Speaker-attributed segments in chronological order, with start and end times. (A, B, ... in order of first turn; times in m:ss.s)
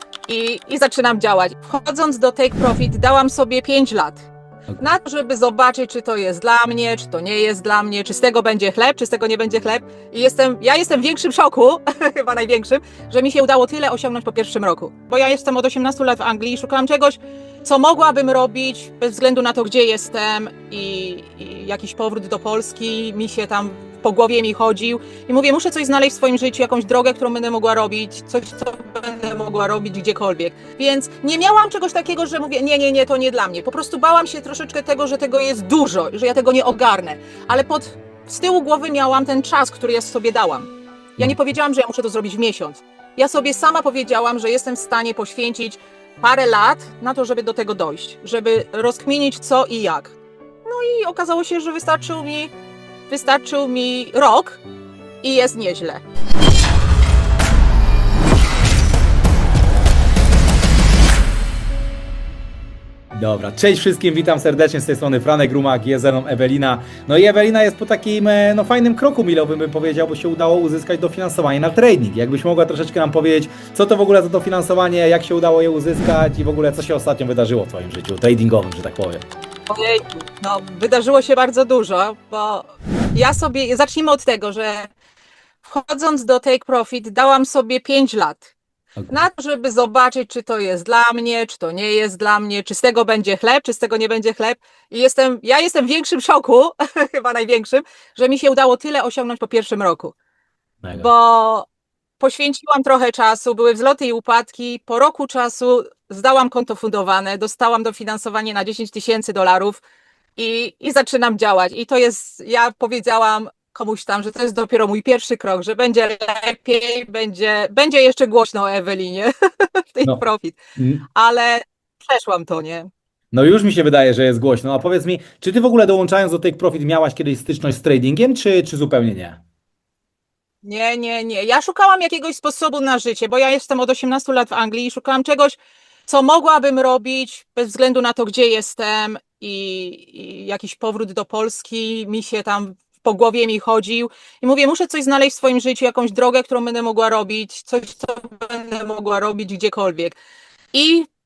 0:00.3-0:04.3 A
0:04.8-0:52.5 A
0:53.1-0:54.6 A
0:55.2-0:56.0 A
1:03.1-1:19.2 B
1:19.7-1:24.9 A
1:25.6-1:28.5 A
1:29.0-1:29.2 B
1:29.1-1:40.1 A
1:40.8-1:41.1 B
1:40.9-1:41.7 A
1:42.2-1:49.8 A
1:50.4-2:00.6 A
2:00.8-2:01.0 B
2:01.1-2:02.9 A
2:03.3-2:09.4 B
2:10.6-2:30.2 A
2:30.7-2:31.1 A